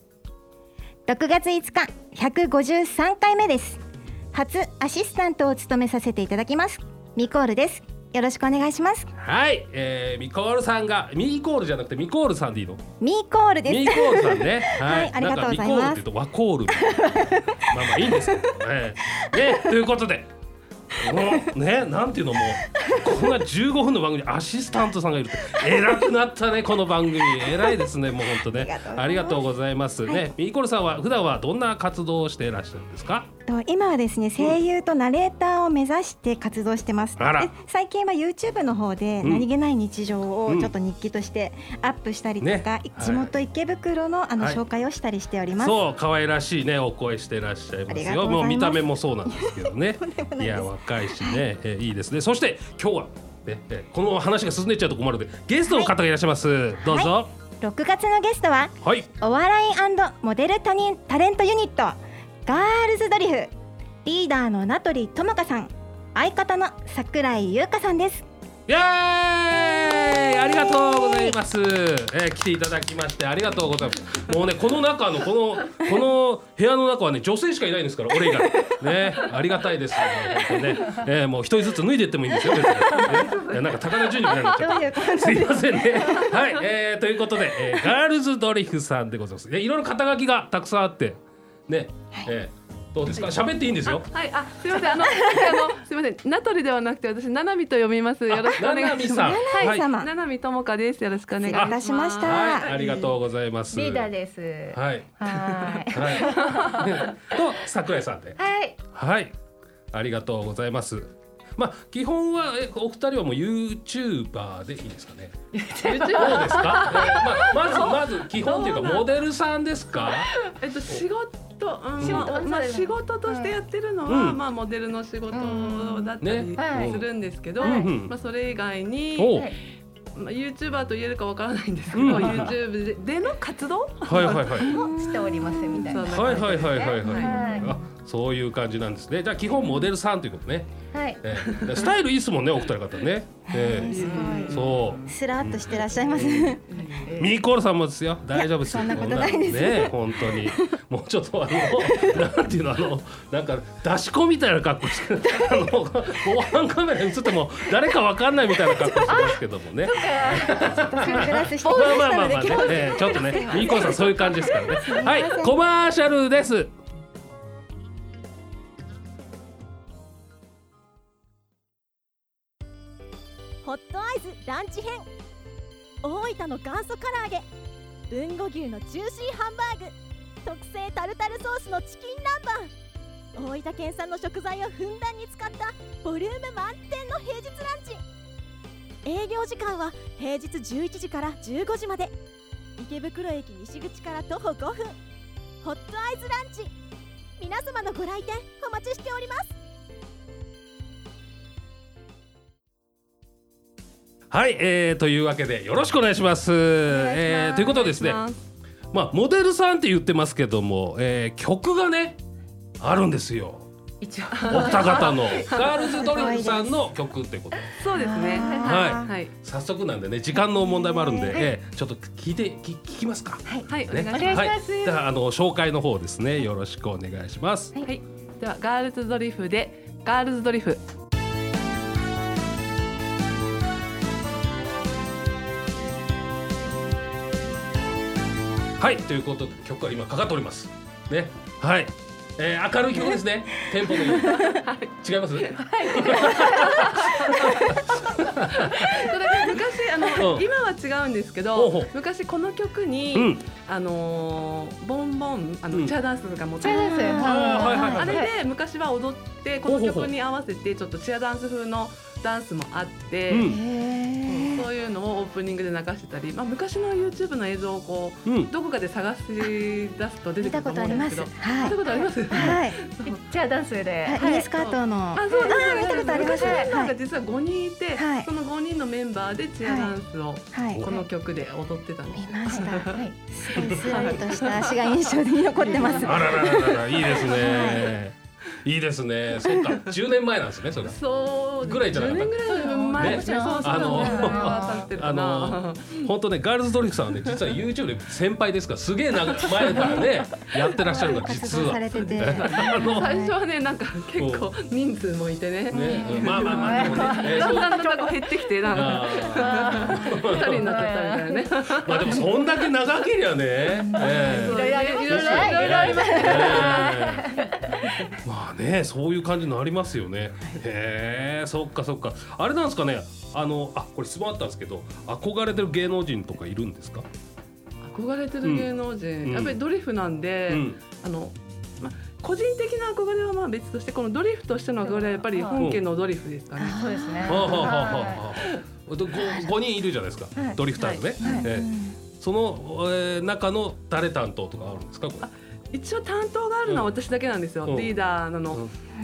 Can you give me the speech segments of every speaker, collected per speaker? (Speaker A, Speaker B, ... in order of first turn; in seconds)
Speaker A: 1.1-3.8, 4.3-9.1, 13.0-16.1, 16.7-18.5, 22.7-23.1, 28.2-29.5, 33.5-45.8, 47.9-51.5, 55.6-55.9, 56.8-63.5, 64.0-68.3, 70.7-71.4, 84.5-86.3, 99.2-100.1, 101.4-102.8, 134.6-136.0, 137.2-137.8, 139.5-139.9, 143.5-146.6, 148.3-150.8, 151.8-152.3, 160.5-165.6, 215.8-216.8, 217.9-219.1, 220.4-221.5, 256.7-258.0, 263.4-264.7, 270.4-272.8, 274.1-276.9, 277.9-278.3, 279.6-279.9, 280.5-280.9, 282.1-286.4, 287.1-288.0, 300.8-303.3, 336.6-337.6, 341.2-341.9
Speaker B: 9.2-12.8, 13.7-20.3, 21.0-33.3, 37.2-37.5, 39.2-39.5, 40.5-40.7, 42.4-43.3, 45.6-57.3, 58.8-59.1, 68.7-94.1, 98.3-99.9, 101.5-104.1, 104.7-108.4, 108.9-109.3, 109.9-120.3, 122.0-122.3, 124.0-124.4, 126.2-128.1, 129.2-129.5, 131.9-132.5, 134.1-134.7, 136.0-146.6, 147.2-166.7, 204.3-208.2, 208.9-212.2, 212.8-213.7, 214.4-217.7, 218.6-227.8, 238.8-244.5, 245.0-249.0, 250.1-250.5, 251.6-251.9, 253.1-253.5, 257.2-258.3, 259.7-260.1, 263.3-263.6, 268.2-268.5, 286.0-291.0, 291.6-292.3, 292.9-303.1, 304.2-304.4, 305.7-307.8, 308.7-310.8, 311.8-317.3, 318.2-327.1, 328.4-328.7, 329.2-329.6, 330.5-330.8, 335.6-335.8, 337.2-345.3, 346.6-346.9, 347.6-347.9
Speaker C: 82.7-84.7, 93.9-103.0, 115.9-117.8, 120.6-129.5, 130.1-134.6, 135.8-137.4, 143.9-145.0, 146.7-147.2, 207.4-208.4, 214.3-215.8, 217.8-219.3, 223.7-224.5, 227.8-230.8, 244.1-263.6, 264.2-273.2, 274.2-283.0, 283.6-287.8, 290.8-296.1, 297.1-297.5, 299.4-300.1, 301.2-312.2, 313.9-317.1, 327.8-336.8, 337.4-337.8, 340.8-341.2, 345.2-348.6
Speaker D: 103.7-107.1, 108.4-108.8, 115.5-119.1, 120.1-120.4, 122.0-123.6, 125.3-127.0, 127.6-127.9, 132.1-132.3, 134.7-137.8, 140.9-141.2, 143.9-144.5, 147.0-147.3, 159.1-164.7, 214.0-215.6, 218.3-218.8, 223.5-225.0, 245.7-246.8, 256.6-258.3, 271.6-274.5, 275.2-276.7, 282.5-284.1, 285.7-285.9, 292.4-294.9, 305.8-312.2, 313.8-317.9, 334.9-335.6, 336.7-338.2, 340.3-340.6, 341.2-341.5
Speaker E: 173.6-175.1, 176.0-177.5, 178.1-182.7, 183.3-188.0, 189.0-192.2, 192.8-195.0, 195.6-196.7, 197.4-199.6